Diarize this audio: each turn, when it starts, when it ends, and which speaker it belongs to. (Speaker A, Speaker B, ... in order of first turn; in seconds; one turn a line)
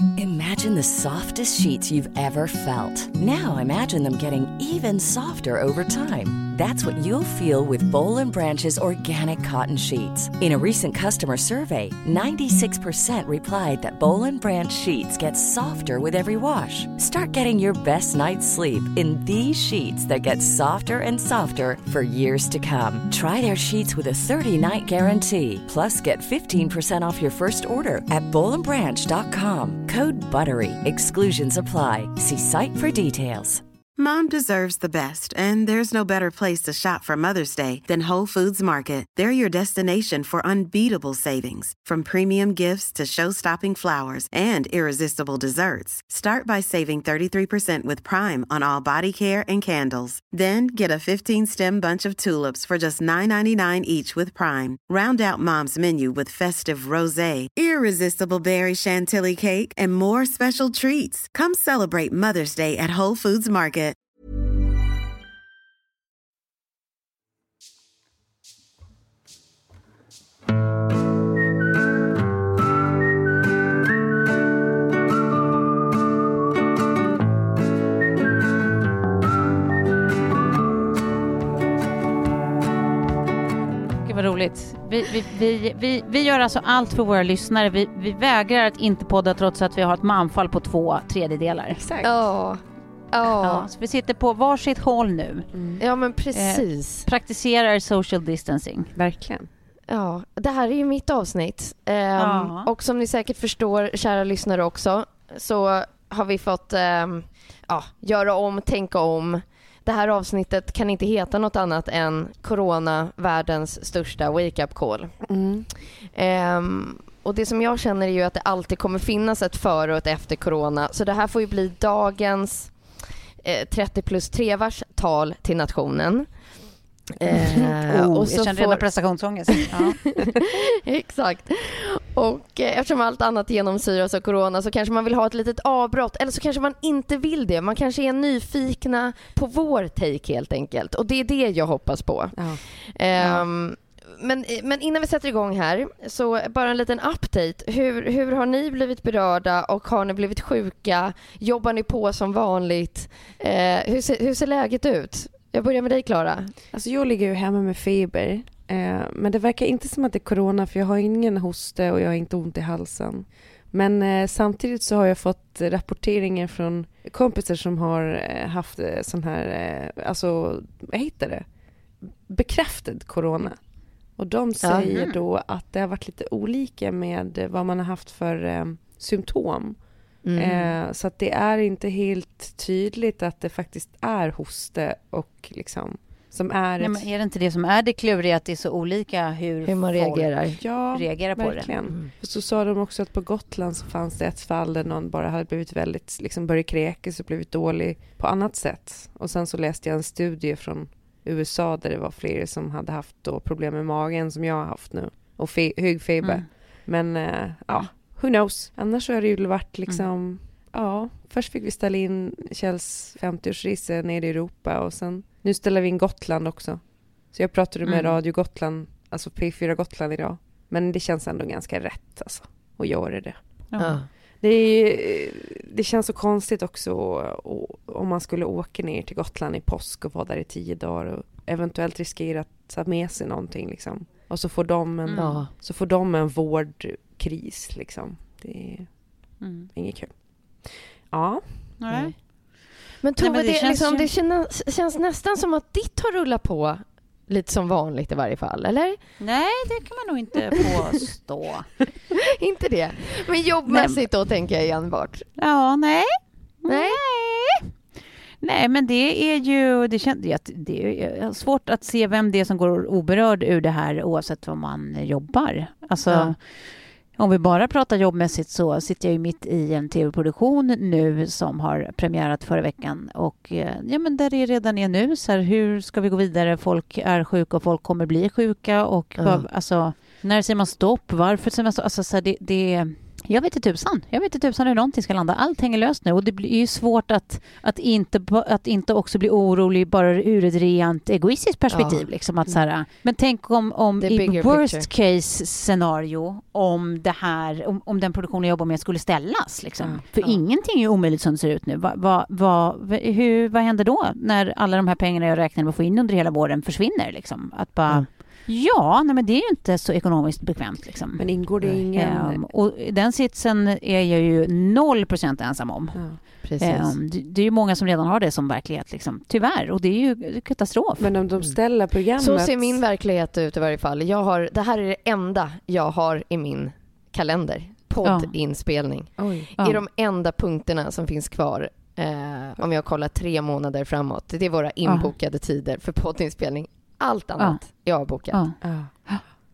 Speaker A: 0.2-33.6
Speaker B: 34.0-64.0
Speaker C: 84.0-91.8
Speaker D: 91.8-92.1
Speaker E: 92.0-92.6
Speaker E: 93.1-93.7
Speaker C: 93.4-95.5
Speaker D: 95.5-95.8
Speaker E: 95.8-97.1
Speaker C: 96.3-98.9
Speaker D: 99.0-99.5
Speaker E: 99.9-115.2
Speaker C: 102.2-102.7
Speaker D: 115.3-115.7
Speaker E: 116.0-126.3
Speaker E: 127.2-129.0
Speaker C: 127.7-130.2
Speaker E: 130.3-156.5
Speaker D: 142.3-142.6
Speaker D: 156.7-187.1
Speaker C: 174.9-175.2
Speaker E: 180.2-180.7
Speaker C: 186.8-191.8
Speaker E: 189.7-190.6
Speaker D: 190.6-223.6
Speaker C: 217.9-218.2
Speaker C: 223.7-224.0
Speaker E: 223.8-224.1
Speaker D: 224.4-239.0
Speaker C: 235.1-235.4
Speaker E: 235.2-235.5
Speaker C: 239.4-239.7
Speaker D: 239.7-241.8
Speaker C: 241.8-242.3
Speaker E: 243.0-249.0
Speaker C: 243.2-244.1
Speaker C: 249.2-251.7
Speaker E: 252.4-255.3
Speaker C: 253.7-254.0
Speaker C: 255.4-257.7
Speaker E: 256.7-257.0
Speaker C: 258.4-266.4
Speaker C: 267.2-321.1
Speaker E: 279.2-279.4
Speaker E: 291.7-292.1
Speaker E: 294.0-294.9
Speaker D: 311.2-312.4
Speaker D: 315.9-316.2
Speaker E: 316.4-316.9
Speaker D: 321.0-322.8
Speaker E: 322.2-338.4
Speaker C: 328.0-328.3
Speaker D: 329.2-329.5
Speaker C: 334.9-335.1
Speaker C: 338.3-339.2
Speaker D: 338.6-338.9